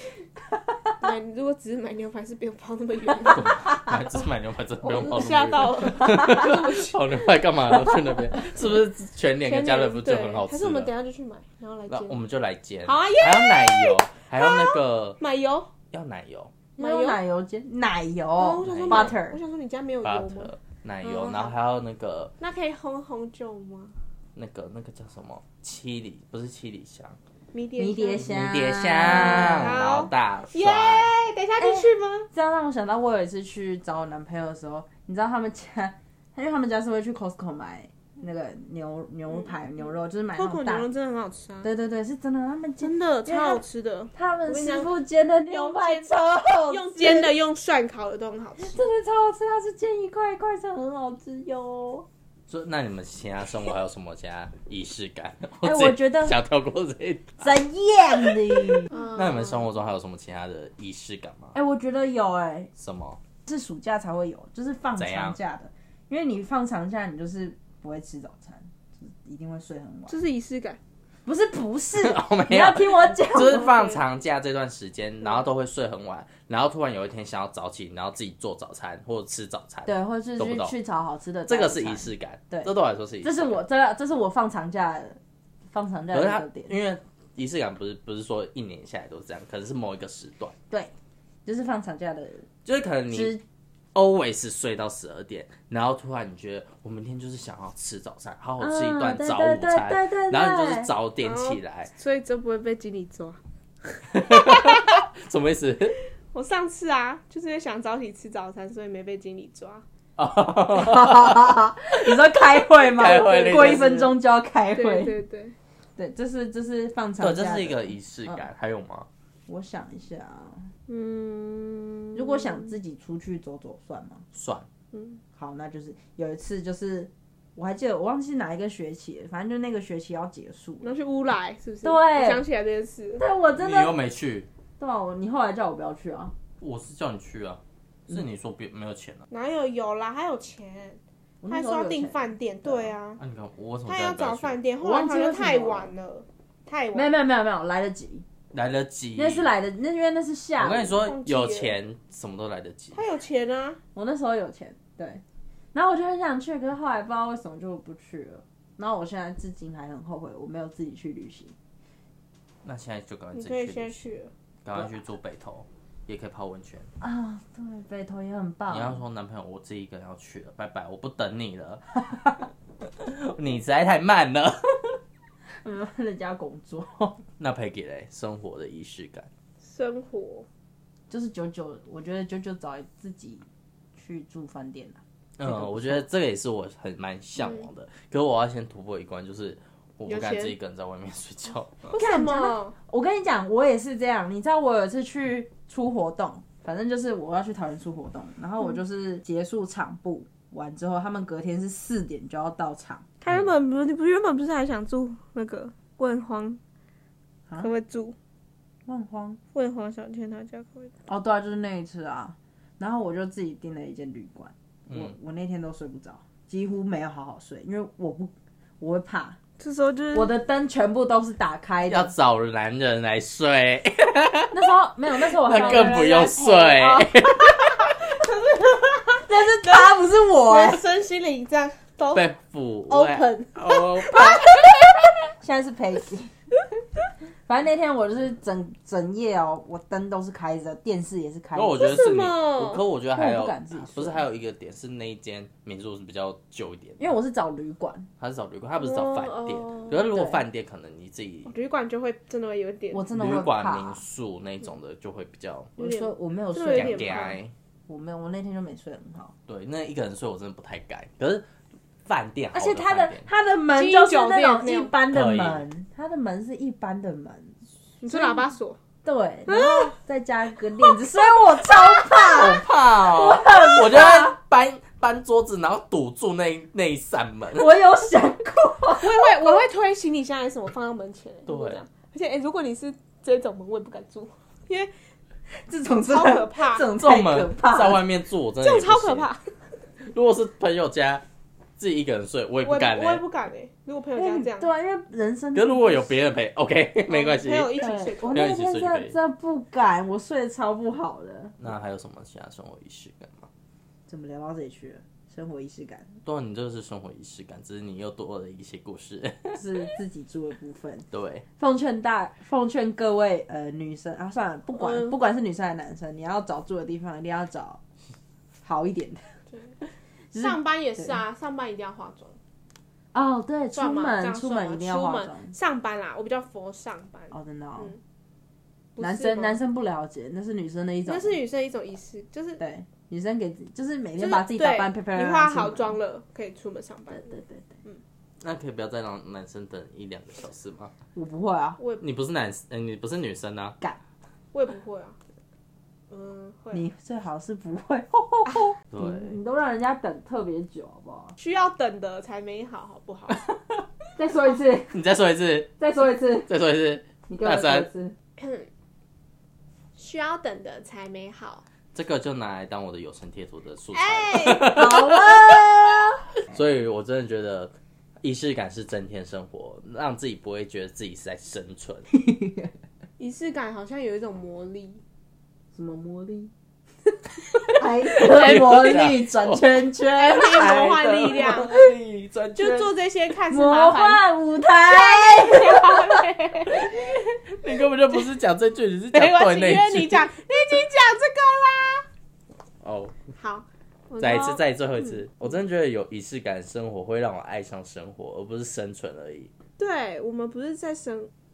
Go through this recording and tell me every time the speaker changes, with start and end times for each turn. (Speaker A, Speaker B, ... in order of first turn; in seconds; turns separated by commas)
Speaker A: 0.5-0.9, Speaker B: 1.0-3.6, Speaker C: 3.3-10.9, Speaker B: 4.8-7.0, Speaker A: 6.1-6.4, Speaker B: 9.4-12.2, Speaker C: 11.9-15.2, Speaker B: 12.8-15.7, Speaker C: 15.9-16.6, Speaker A: 16.8-19.4, Speaker B: 16.8-17.2, Speaker B: 18.4-20.5, Speaker C: 18.6-19.2, Speaker C: 20.0-22.3, Speaker B: 21.0-21.5, Speaker B: 22.4-23.9, Speaker C: 24.4-27.2, Speaker B: 27.5-28.3, Speaker A: 27.8-29.8, Speaker C: 28.2-31.1, Speaker B: 28.9-32.3, Speaker A: 31.6-40.9, Speaker B: 39.3-39.6, Speaker B: 40.4-41.7, Speaker A: 41.6-43.6, Speaker B: 42.8-44.9, Speaker A: 44.1-47.3, Speaker B: 45.5-48.8, Speaker A: 48.6-52.1, Speaker C: 52.5-61.5, Speaker A: 55.6-56.4, Speaker A: 57.4-58.9, Speaker B: 58.9-59.7, Speaker A: 61.5-62.7, Speaker C: 62.8-63.2, Speaker A: 63.4-70.2, Speaker C: 65.0-65.4, Speaker B: 70.1-70.8, Speaker A: 71.2-73.7, Speaker C: 71.9-80.7, Speaker B: 73.4-74.0, Speaker A: 79.9-86.7, Speaker C: 81.5-83.6, Speaker C: 86.1-90.6, Speaker A: 91.5-92.5, Speaker C: 92.6-93.4, Speaker A: 93.1-93.4, Speaker C: 93.9-101.9, Speaker A: 98.6-100.9, Speaker B: 101.2-103.4, Speaker C: 104.1-106.0, Speaker B: 104.4-104.9, Speaker B: 106.3-109.8, Speaker C: 110.2-114.2, Speaker A: 110.7-115.2, Speaker B: 114.7-115.6, Speaker A: 116.0-118.5, Speaker C: 117.2-119.1, Speaker A: 119.5-120.7, Speaker B: 120.9-122.7, Speaker A: 122.1-124.2, Speaker C: 124.3-124.7, Speaker B: 124.9-125.2, Speaker A: 125.3-130.9, Speaker B: 130.8-133.2, Speaker A: 131.8-132.4, Speaker A: 133.2-134.0, Speaker C: 133.6-134.5, Speaker A: 134.8-136.3, Speaker C: 136.6-139.3, Speaker B: 139.3-143.2, Speaker A: 141.4-142.9, Speaker C: 143.2-144.6, Speaker B: 143.9-147.1, Speaker A: 144.8-145.9, Speaker A: 146.9-148.2, Speaker C: 148.5-149.5, Speaker A: 149.1-151.1, Speaker C: 150.6-153.0, Speaker B: 150.9-151.8, Speaker B: 152.9-153.8, Speaker A: 153.9-155.2, Speaker A: 155.7-161.6, Speaker C: 162.6-164.0, Speaker B: 163.3-164.3, Speaker C: 164.6-166.9, Speaker A: 167.0-169.0, Speaker C: 168.7-171.8, Speaker C: 172.8-175.0, Speaker A: 175.6-177.2, Speaker C: 177.4-179.3, Speaker B: 179.6-180.5, Speaker A: 181.1-186.1, Speaker C: 185.4-191.9, Speaker B: 187.4-187.7, Speaker B: 190.1-190.6, Speaker B: 191.9-192.7, Speaker A: 191.9-203.1, Speaker B: 203.2-206.6, Speaker C: 203.3-203.5, Speaker B: 207.6-208.2, Speaker A: 208.9-209.4, Speaker B: 209.5-210.9, Speaker A: 211.1-219.4, Speaker B: 219.6-220.3, Speaker A: 220.1-222.1, Speaker C: 221.9-224.7, Speaker A: 224.5-227.1, Speaker C: 225.2-227.9, Speaker B: 225.5-226.4, Speaker B: 228.2-232.3, Speaker A: 229.2-230.8, Speaker C: 232.1-234.6, Speaker A: 232.9-233.6, Speaker B: 233.7-234.7, Speaker A: 235.4-236.3, Speaker A: 237.5-242.1, Speaker C: 241.6-247.1, Speaker B: 241.8-242.8, Speaker A: 243.1-244.2, Speaker A: 247.0-248.1, Speaker C: 248.2-251.5, Speaker B: 248.8-250.1, Speaker A: 250.1-250.4, Speaker B: 251.5-253.1, Speaker A: 252.9-254.0, Speaker C: 253.1-255.7, Speaker A: 255.8-257.3, Speaker B: 255.8-257.4, Speaker C: 256.7-257.5, Speaker A: 257.9-259.4, Speaker C: 259.5-261.4, Speaker C: 262.1-263.3, Speaker A: 262.5-268.5, Speaker B: 263.7-264.9, Speaker C: 265.1-265.6, Speaker B: 268.0-268.8, Speaker A: 269.0-274.4, Speaker B: 269.5-269.9, Speaker C: 271.9-277.7, Speaker A: 277.6-279.6, Speaker B: 278.9-284.9, Speaker C: 281.5-281.8, Speaker A: 285.5-288.0, Speaker B: 286.1-286.9, Speaker C: 287.0-289.3, Speaker B: 288.6-289.5, Speaker C: 290.0-291.2, Speaker C: 291.8-293.2, Speaker B: 292.6-294.7, Speaker A: 294.1-296.2, Speaker C: 295.6-297.8, Speaker B: 297.1-298.4, Speaker A: 297.8-301.6, Speaker C: 298.3-299.1, Speaker C: 301.6-303.5, Speaker A: 304.1-306.1, Speaker C: 306.2-309.8, Speaker A: 309.6-317.8, Speaker C: 311.1-311.4, Speaker B: 314.8-315.1, Speaker A: 318.6-319.4, Speaker B: 319.5-319.7, Speaker A: 320.3-321.2, Speaker B: 320.4-322.4, Speaker A: 323.1-325.5, Speaker B: 323.7-328.0, Speaker A: 327.3-327.9, Speaker B: 328.9-329.6, Speaker A: 329.0-331.4, Speaker B: 331.1-332.6, Speaker A: 332.6-336.0, Speaker B: 334.2-337.3, Speaker A: 337.1-337.7, Speaker C: 338.4-340.9, Speaker A: 341.1-341.8, Speaker C: 342.0-343.8, Speaker B: 344.5-345.2, Speaker B: 346.1-346.8, Speaker A: 346.7-351.4, Speaker C: 348.9-349.4, Speaker B: 351.4-353.4, Speaker A: 354.1-355.0, Speaker C: 354.9-355.8, Speaker A: 355.8-356.5, Speaker C: 356.5-357.9, Speaker A: 357.3-358.1, Speaker B: 358.4-358.7, Speaker B: 359.9-361.6, Speaker C: 361.9-365.6, Speaker B: 363.9-364.9, Speaker A: 364.6-366.3, Speaker C: 366.5-372.1, Speaker A: 372.1-372.7, Speaker B: 373.2-375.0, Speaker A: 375.7-376.5, Speaker C: 377.6-379.8, Speaker A: 377.7-381.1, Speaker B: 380.2-381.9, Speaker C: 380.4-382.9, Speaker B: 382.6-384.2, Speaker A: 383.5-386.2, Speaker B: 384.9-386.9, Speaker C: 386.7-390.3, Speaker B: 389.1-392.1, Speaker C: 392.8-393.2, Speaker B: 393.4-395.2, Speaker C: 394.2-399.5, Speaker B: 399.8-401.3